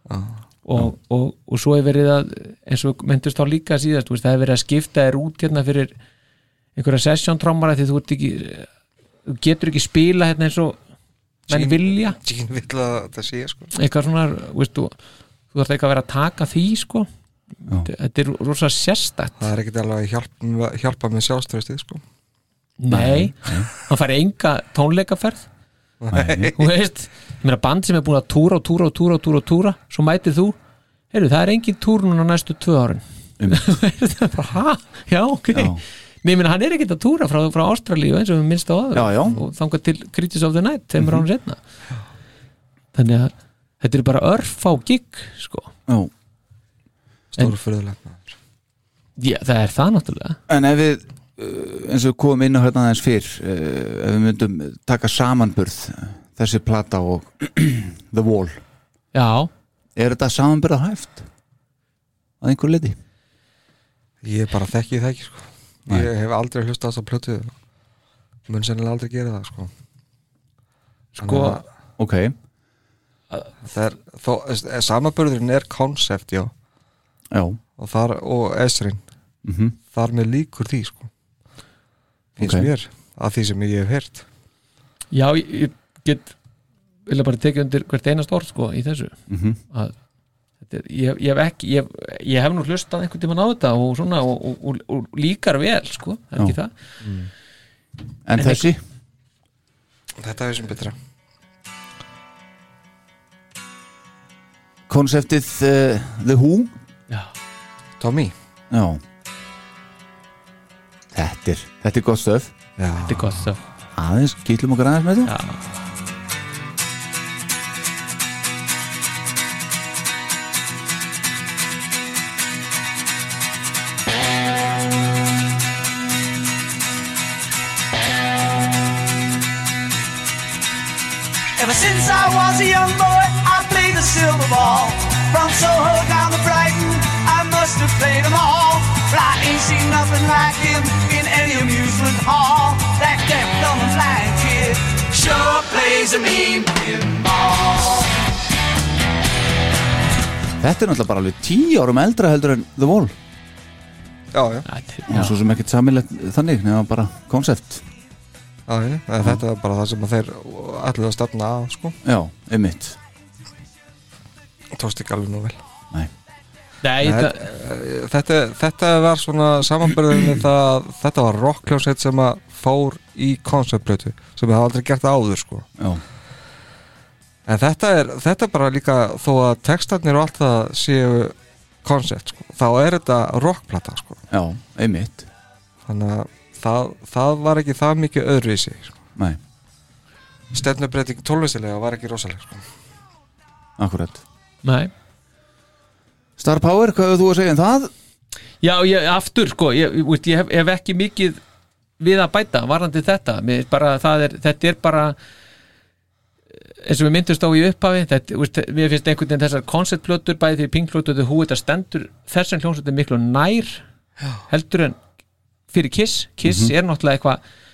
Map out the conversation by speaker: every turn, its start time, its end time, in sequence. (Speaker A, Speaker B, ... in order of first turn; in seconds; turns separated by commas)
Speaker A: 0.1-0.3, Speaker B: 0.7-5.9, Speaker B: 6.8-8.7, Speaker B: 9.3-10.8, Speaker B: 11.5-12.2, Speaker A: 11.5-13.7, Speaker B: 13.8-14.9, Speaker B: 15.5-17.1, Speaker B: 17.8-19.5, Speaker A: 19.4-22.0, Speaker B: 22.8-25.5, Speaker C: 22.9-23.7, Speaker A: 26.0-26.6, Speaker C: 26.1-26.5, Speaker B: 26.5-30.6, Speaker B: 31.1-41.6, Speaker C: 33.4-33.7, Speaker C: 35.5-35.8, Speaker C: 39.0-39.4, Speaker B: 42.9-45.7, Speaker A: 47.3-48.4, Speaker B: 49.2-50.4, Speaker C: 50.5-58.6, Speaker B: 59.1-59.5, Speaker C: 60.0-61.3, Speaker C: 62.4-63.0, Speaker A: 64.2-67.5, Speaker A: 68.5-69.7, Speaker B: 71.2-71.6, Speaker A: 71.2-71.6, Speaker C: 72.0-72.3, Speaker A: 73.6-76.5, Speaker C: 77.3-77.6, Speaker A: 77.8-79.0, Speaker C: 79.4-79.8, Speaker A: 79.9-81.1, Speaker A: 82.4-84.2, Speaker C: 82.4-82.7, Speaker B: 85.1-86.3, Speaker B: 87.1-89.2, Speaker C: 89.3-89.6, Speaker B: 90.6-96.7, Speaker A: 97.0-97.3, Speaker C: 98.3-98.8, Speaker B: 98.4-98.7, Speaker A: 100.2-101.0, Speaker C: 104.9-106.7, Speaker A: 108.0-108.3, Speaker C: 108.7-109.0, Speaker C: 111.1-112.5, Speaker A: 112.8-113.4, Speaker B: 113.0-113.6, Speaker C: 114.0-115.3, Speaker B: 115.3-115.6, Speaker D: 131.6-147.1, Speaker C: 150.6-153.1, Speaker A: 154.3-154.7, Speaker B: 154.7-155.3, Speaker C: 155.1-157.8, Speaker A: 158.7-162.0, Speaker C: 162.0-163.0, Speaker A: 164.8-165.6, Speaker B: 166.8-167.5, Speaker A: 167.0-175.7, Speaker A: 177.5-184.2, Speaker C: 184.3-185.3, Speaker A: 185.9-189.0, Speaker A: 190.5-192.6, Speaker C: 193.8-194.2, Speaker B: 194.6-194.9, Speaker C: 196.4-197.9, Speaker B: 198.6-201.4, Speaker B: 202.0-205.2, Speaker B: 206.8-213.8, Speaker B: 214.5-215.0, Speaker B: 215.7-217.4, Speaker C: 216.4-216.7